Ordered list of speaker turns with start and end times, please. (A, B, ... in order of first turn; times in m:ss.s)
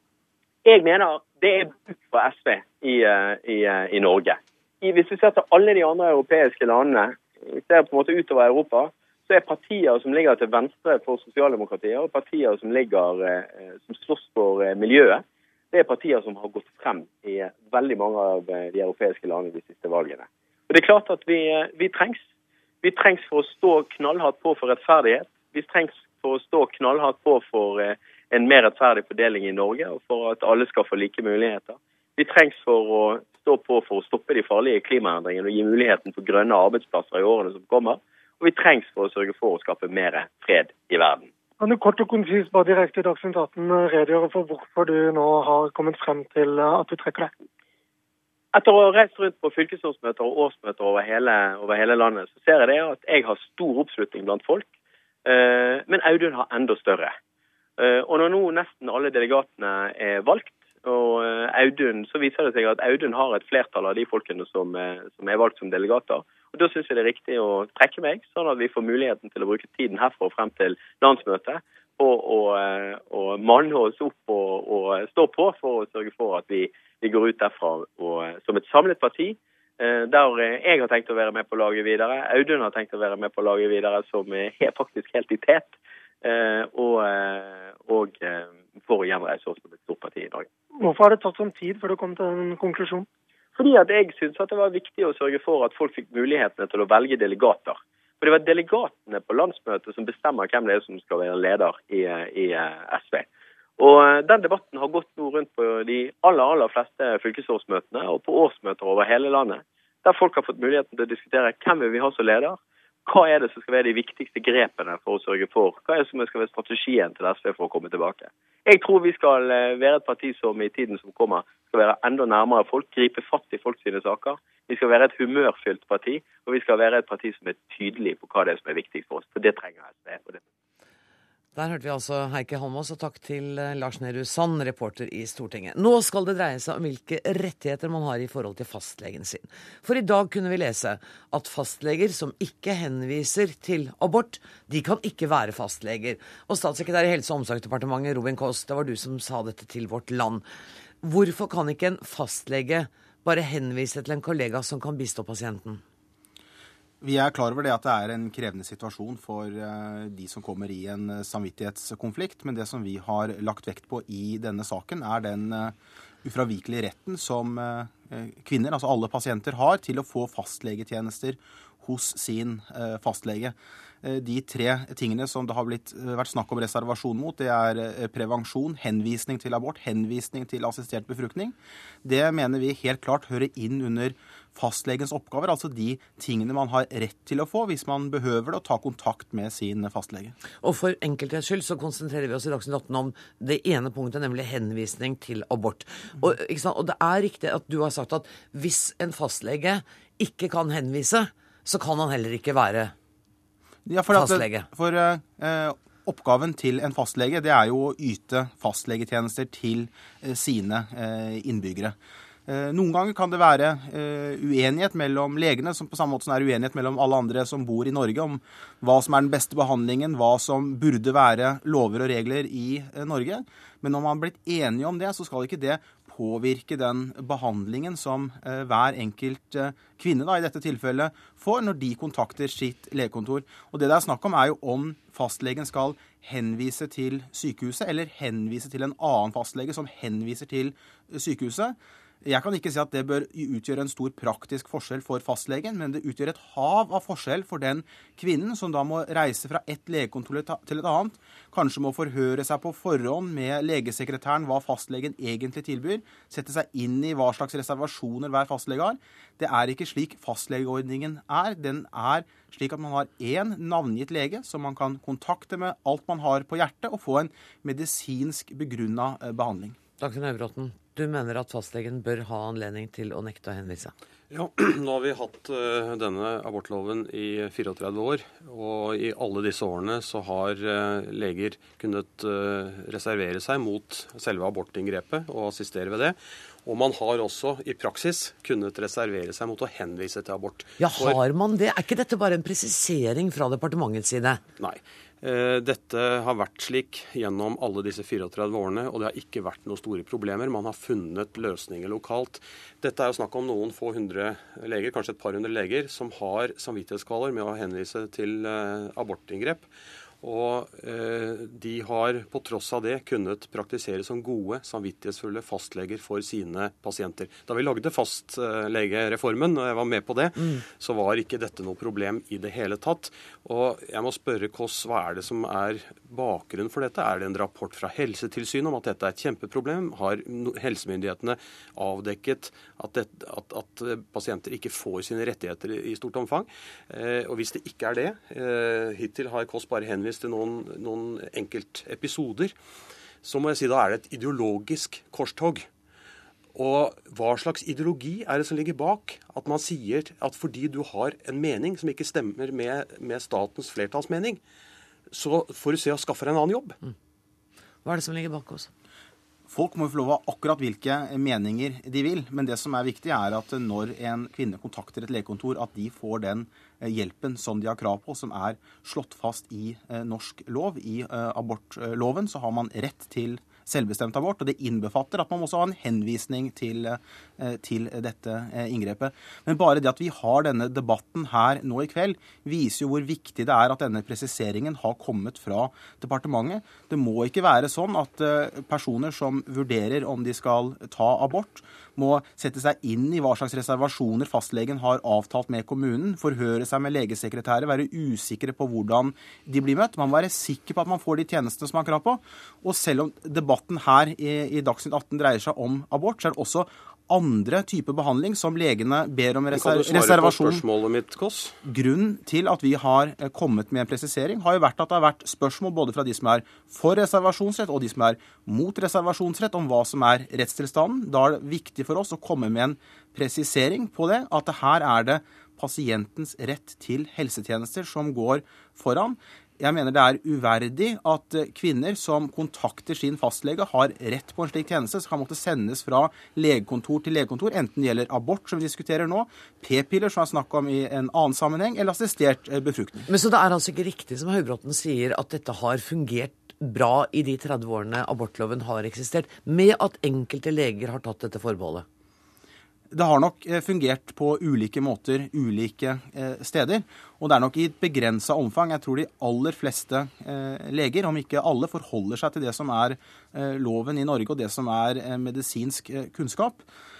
0:00.6-0:22.2 A
0:22.8-0:41.3 A
0:41.6-0:47.3 B
0:48.5-0:54.7 A
0:55.2-0:57.1 A
0:57.8-1:30.5 A
1:30.8-1:33.0 B
1:33.6-1:43.3 A
1:43.8-2:10.4 A
2:11.5-2:30.4 C
2:31.0-2:35.8 C
2:37.0-3:10.3 D
3:10.6-3:22.9 C
3:23.8-3:31.9 D
3:24.1-3:24.7 C
3:32.5-4:29.8 D
4:30.0-4:33.9 C
4:34.3-4:51.2 E
4:50.8-4:54.4 C
4:54.6-5:09.7 E
5:10.2-5:42.5 E
5:43.2-5:45.7 E
5:46.5-5:54.4 E
5:55.1-5:56.8 E
5:57.8-5:58.7 C
5:59.5-6:50.6 D
6:49.5-6:51.6 E
6:51.6-7:23.1 D
7:23.1-7:31.8 C
7:32.9-7:46.6 D